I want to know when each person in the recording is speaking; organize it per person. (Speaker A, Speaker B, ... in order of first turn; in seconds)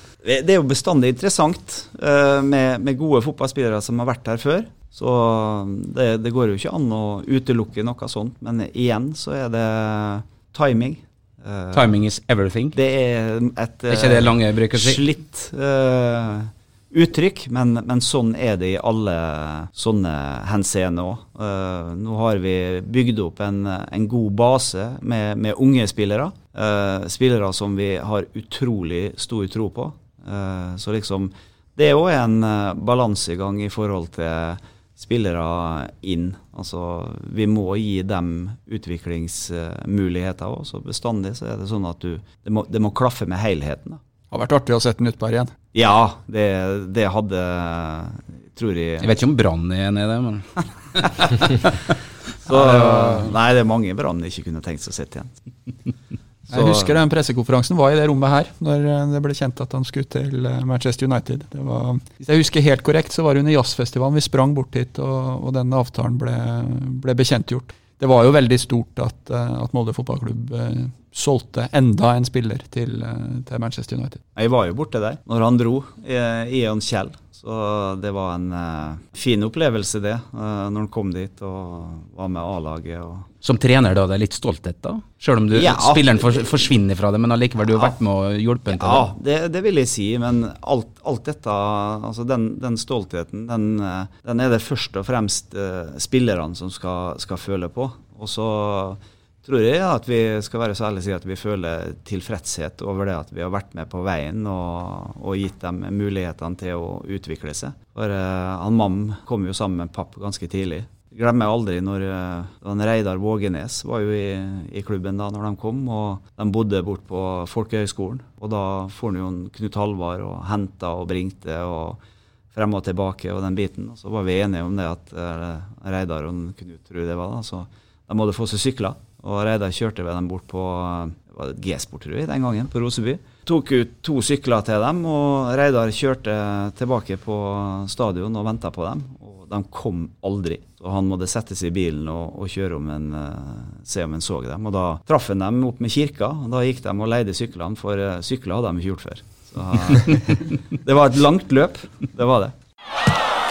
Speaker A: 0.2-11.9, 12.7-44.0, 45.7-49.2, 51.2-51.7, 52.4-55.4, 56.5-57.0, 74.3-83.3, 85.5-86.7, 88.7-122.0, 122.5-152.5
Speaker B: 11.7-12.8, 13.9-15.0, 49.0-51.6, 52.5-53.1, 83.4-89.1
Speaker C: 44.3-45.5, 56.5-74.2